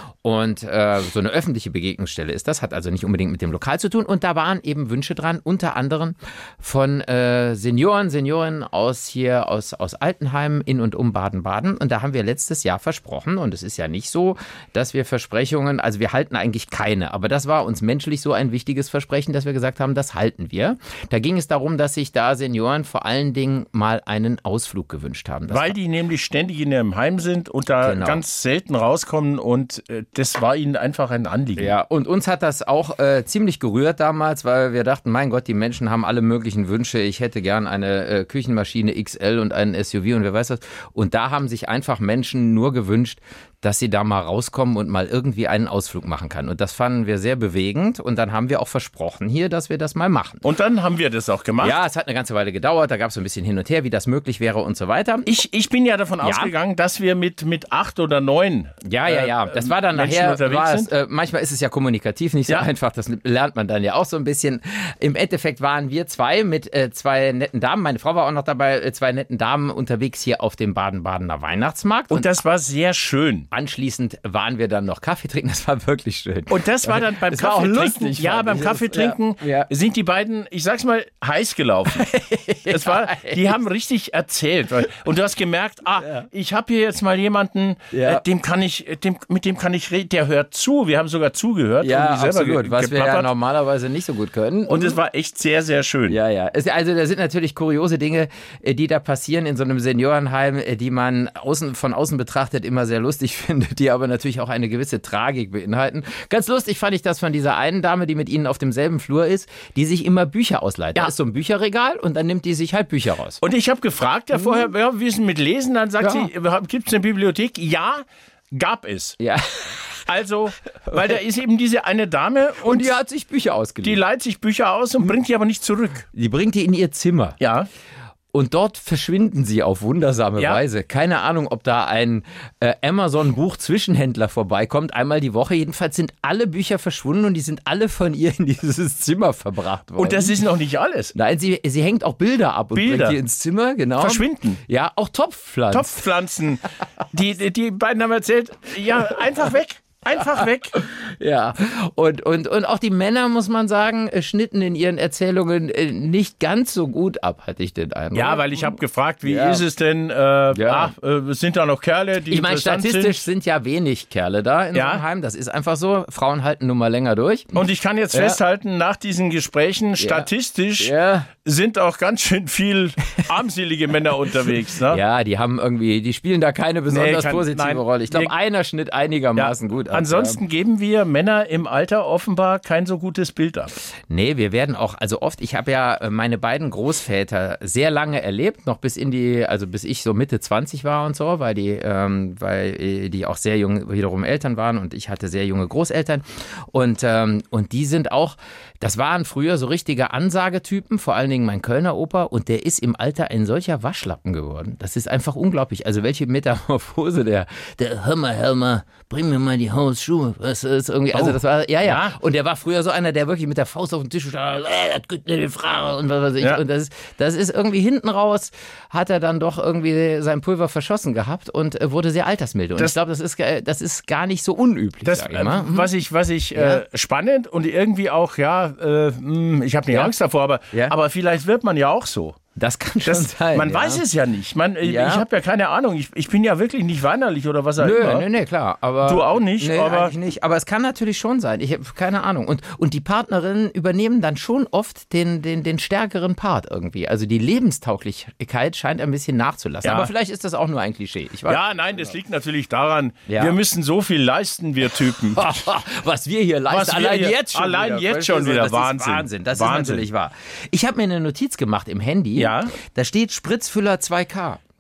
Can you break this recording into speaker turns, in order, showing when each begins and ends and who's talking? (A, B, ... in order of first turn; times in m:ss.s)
0:00.2-0:25.8 A
0:25.5-0:31.7 B
0:27.8-0:28.2 A
0:31.6-0:50.4 A
0:50.4-0:51.8 B
0:51.6-0:55.4 A
0:55.3-1:00.9 B
0:56.2-0:56.5 A
0:58.8-1:12.3 A
1:12.1-1:13.5 B
1:13.5-1:19.7 A
1:16.5-1:22.1 B
1:21.9-1:23.5 A
1:22.7-1:33.3 B
1:26.0-1:26.3 A
1:27.9-1:28.2 A
1:31.8-1:35.0 A
1:34.7-1:36.2 B
1:36.1-1:53.4 A
1:53.4-1:59.2 B
1:56.0-1:56.3 A
1:59.2-2:00.0 A
2:00.1-2:02.9 B
2:02.6-2:04.0 A
2:03.8-2:06.1 B
2:06.1-2:07.4 A
2:07.4-2:07.7 B
2:08.3-2:20.4 A
2:20.0-2:21.1 B
2:21.1-2:26.0 A
2:22.8-2:23.2 B
2:24.0-2:24.6 B
2:25.7-2:30.8 B
2:30.2-2:39.6 A
2:38.1-2:43.3 B
2:40.5-2:40.9 A
2:42.3-2:47.6 A
2:44.7-2:45.0 B
2:47.5-2:55.0 B
2:48.1-2:48.4 A
2:50.0-2:50.3 A
2:50.8-2:51.3 A
2:54.9-3:00.4 A
2:56.9-2:58.3 B
2:59.4-3:03.7 B
3:04.1-3:45.9 A
3:31.1-3:32.2 B
3:45.0-3:52.4 B
3:46.6-3:46.8 A
3:52.6-3:54.0 A
3:53.0-3:58.3 B
3:54.8-3:55.2 A
3:57.8-4:12.1 A
3:59.1-4:00.1 B
4:09.8-4:10.1 B
4:11.5-4:15.5 B
4:13.3-4:13.6 A
4:15.3-4:24.6 A
4:16.7-4:20.1 B
4:22.4-4:22.7 B